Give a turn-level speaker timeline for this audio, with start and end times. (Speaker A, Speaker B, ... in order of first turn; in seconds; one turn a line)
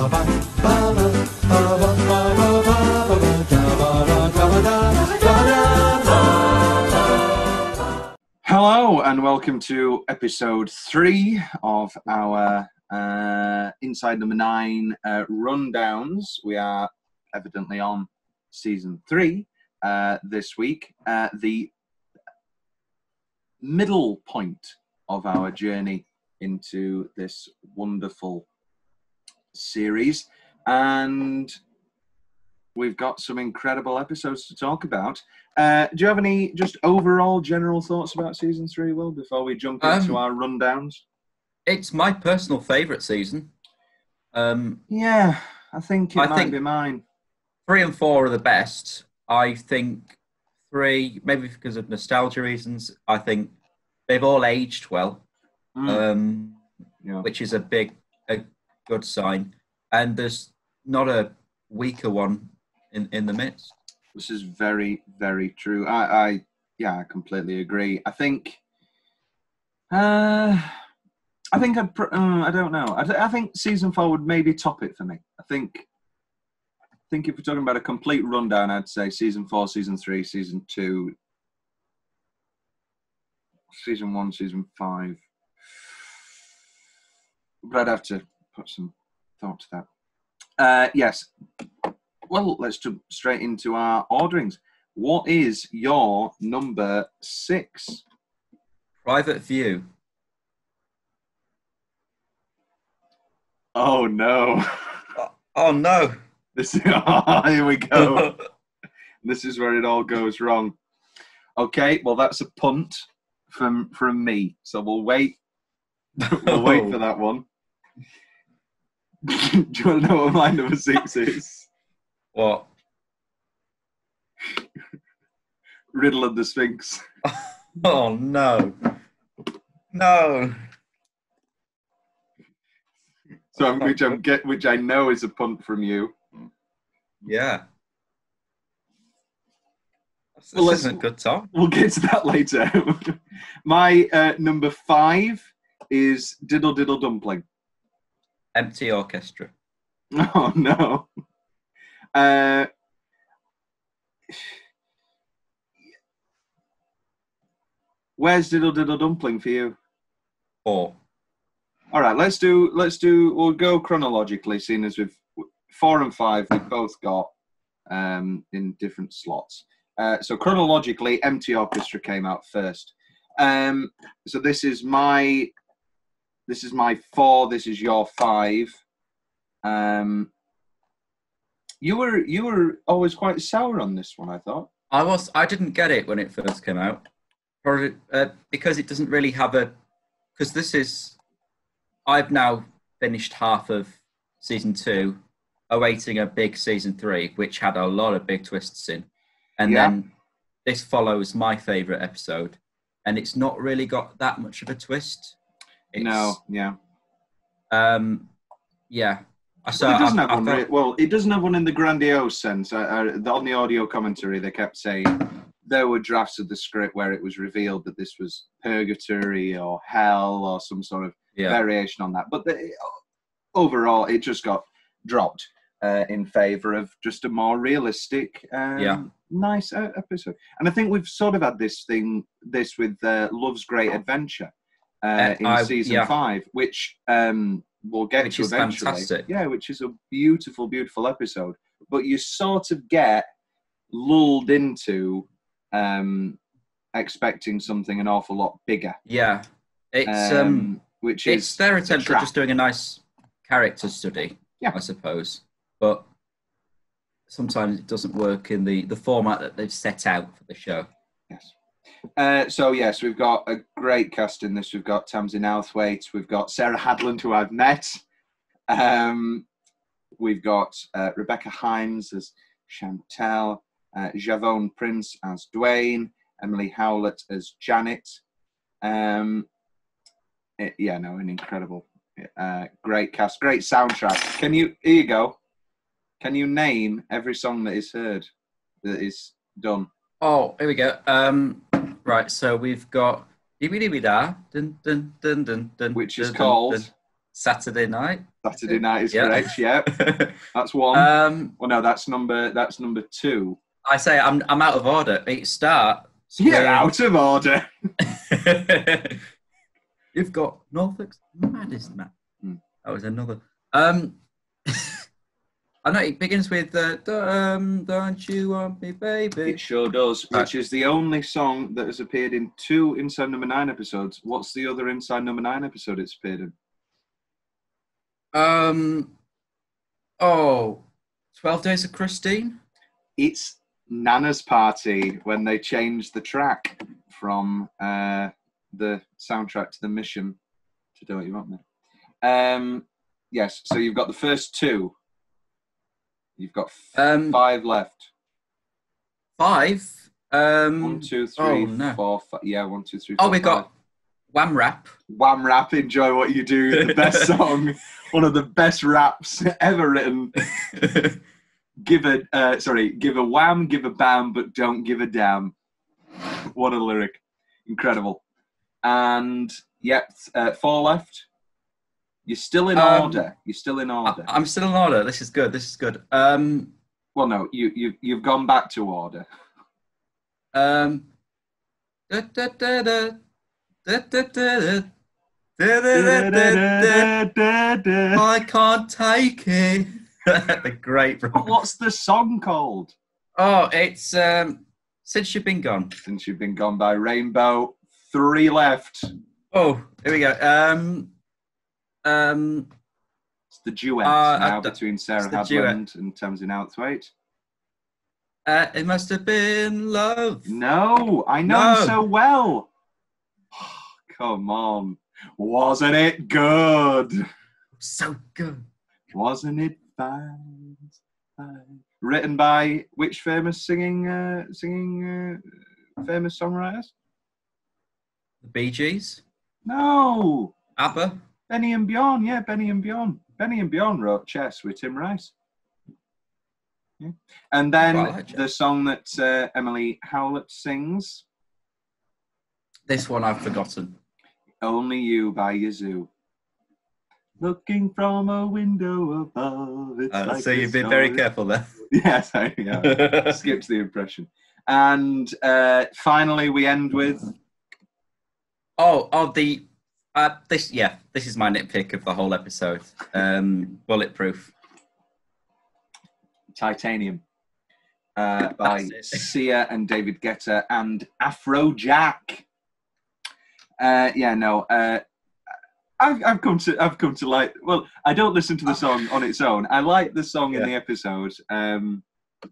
Speaker A: 0.5-6.6
Speaker A: 8.4-21.7
Speaker A: 23.6-28.4
Speaker A: 29.5-31.6
Speaker A: 32.7-41.0
Speaker B: 39.8-40.2
Speaker B: 41.6-43.5
Speaker B: 44.3-44.8
Speaker A: 44.9-47.0
Speaker B: 46.1-46.6
Speaker B: 47.7-50.1
Speaker B: 50.7-53.5
Speaker B: 54.1-55.2
Speaker A: 55.8-56.0
Speaker B: 55.9-56.6
Speaker B: 57.2-63.7
Speaker A: 64.1-68.6
Speaker A: 69.9-70.7
Speaker A: 71.5-75.8
Speaker A: 77.1-81.1
Speaker A: 83.7-86.2
Speaker A: 87.6-89.9
Speaker A: 90.6-91.3
Speaker A: 92.3-98.0
Speaker B: 99.0-99.9
Speaker A: 103.7-105.0
Speaker B: 105.2-106.2
Speaker A: 106.5-108.3
Speaker B: 108.0-108.3
Speaker A: 109.2-110.7
Speaker A: 111.6-115.4
Speaker B: 116.2-117.0
Speaker A: 116.2-117.4
Speaker A: 119.2-121.7
Speaker B: 122.3-122.7
Speaker A: 125.9-127.0
Speaker B: 127.2-128.9
Speaker B: 129.9-130.6
Speaker A: 133.5-136.1
Speaker B: 133.8-134.2
Speaker B: 137.2-137.6
Speaker B: 140.4-141.5
Speaker A: 140.5-141.0
Speaker A: 141.5-147.4
Speaker B: 148.5-149.5
Speaker A: 150.1-151.1
Speaker A: 152.1-152.7
Speaker A: 158.2-159.8
Speaker B: 160.6-160.9
Speaker A: 161.9-167.3
Speaker A: 167.9-175.5
Speaker A: 176.5-178.8
Speaker A: 179.6-180.3
Speaker A: 181.8-184.7
Speaker B: 184.9-187.0
Speaker B: 187.6-189.7
Speaker B: 190.3-191.2
Speaker B: 192.1-199.1
Speaker B: 199.6-200.1
Speaker A: 199.6-199.9
Speaker B: 200.6-205.3
Speaker B: 205.9-206.4
Speaker A: 205.9-206.8
Speaker B: 207.7-208.3
Speaker B: 208.9-210.6
Speaker A: 209.8-222.9
Speaker A: 223.5-234.5
Speaker B: 228.8-229.0
Speaker A: 235.0-243.2
Speaker B: 235.2-236.1
Speaker B: 238.2-239.3
Speaker A: 243.9-246.4
Speaker A: 246.9-249.0
Speaker B: 249.1-250.7
Speaker A: 250.1-252.3
Speaker B: 251.2-256.0
Speaker B: 257.3-260.9
Speaker A: 262.2-268.0
Speaker A: 268.7-269.5
Speaker A: 270.2-278.2
Speaker A: 278.8-279.5
Speaker A: 280.6-285.4
Speaker A: 286.2-288.3
Speaker A: 288.8-289.9
Speaker B: 290.2-298.3
Speaker A: 295.9-296.9
Speaker A: 298.4-299.9
Speaker B: 299.1-300.4
Speaker A: 300.5-303.6
Speaker B: 300.9-301.5
Speaker B: 303.8-306.9
Speaker A: 306.4-307.7
Speaker B: 308.0-309.2
Speaker B: 310.1-312.1
Speaker B: 312.8-315.0
Speaker B: 315.8-319.6
Speaker A: 319.4-326.5
Speaker B: 328.3-329.1
Speaker B: 330.2-330.8
Speaker B: 331.4-332.6
Speaker A: 333.2-340.4
Speaker A: 340.9-341.6
Speaker A: 342.2-344.9
Speaker A: 346.4-348.1
Speaker B: 346.9-347.4
Speaker B: 349.4-352.0
Speaker A: 350.8-353.7
Speaker B: 353.2-353.6
Speaker B: 354.3-354.9
Speaker A: 355.1-360.4
Speaker B: 356.7-357.3
Speaker B: 360.6-361.2
Speaker A: 361.8-365.5
Speaker A: 366.5-368.2
Speaker A: 368.8-371.3
Speaker A: 372.3-374.3
Speaker B: 372.8-373.2
Speaker B: 374.0-376.7
Speaker A: 377.1-379.2
Speaker B: 380.5-381.1
Speaker B: 382.1-383.2
Speaker B: 383.8-384.9
Speaker B: 385.6-387.1
Speaker A: 385.9-388.2
Speaker B: 388.1-391.6
Speaker A: 391.3-392.9
Speaker B: 393.4-395.9
Speaker A: 396.0-399.1
Speaker B: 399.5-401.1
Speaker B: 402.0-402.7
Speaker A: 403.5-407.1
Speaker B: 404.0-405.8
Speaker B: 408.4-410.5
Speaker A: 410.4-412.7
Speaker B: 411.5-412.0
Speaker A: 413.5-417.2
Speaker B: 417.8-418.6
Speaker A: 419.1-425.4
Speaker A: 426.0-426.9
Speaker B: 428.4-429.2
Speaker A: 429.6-430.5
Speaker B: 430.8-431.2
Speaker A: 431.5-435.3
Speaker A: 437.0-441.2
Speaker B: 437.8-438.4
Speaker B: 442.9-444.0
Speaker A: 444.6-446.1
Speaker A: 447.4-451.2
Speaker B: 450.1-451.8
Speaker A: 451.9-457.3
Speaker B: 452.8-453.4
Speaker B: 458.8-464.5
Speaker A: 466.6-467.2
Speaker A: 468.2-472.4
Speaker B: 468.6-469.3
Speaker A: 473.8-475.0
Speaker A: 476.0-482.0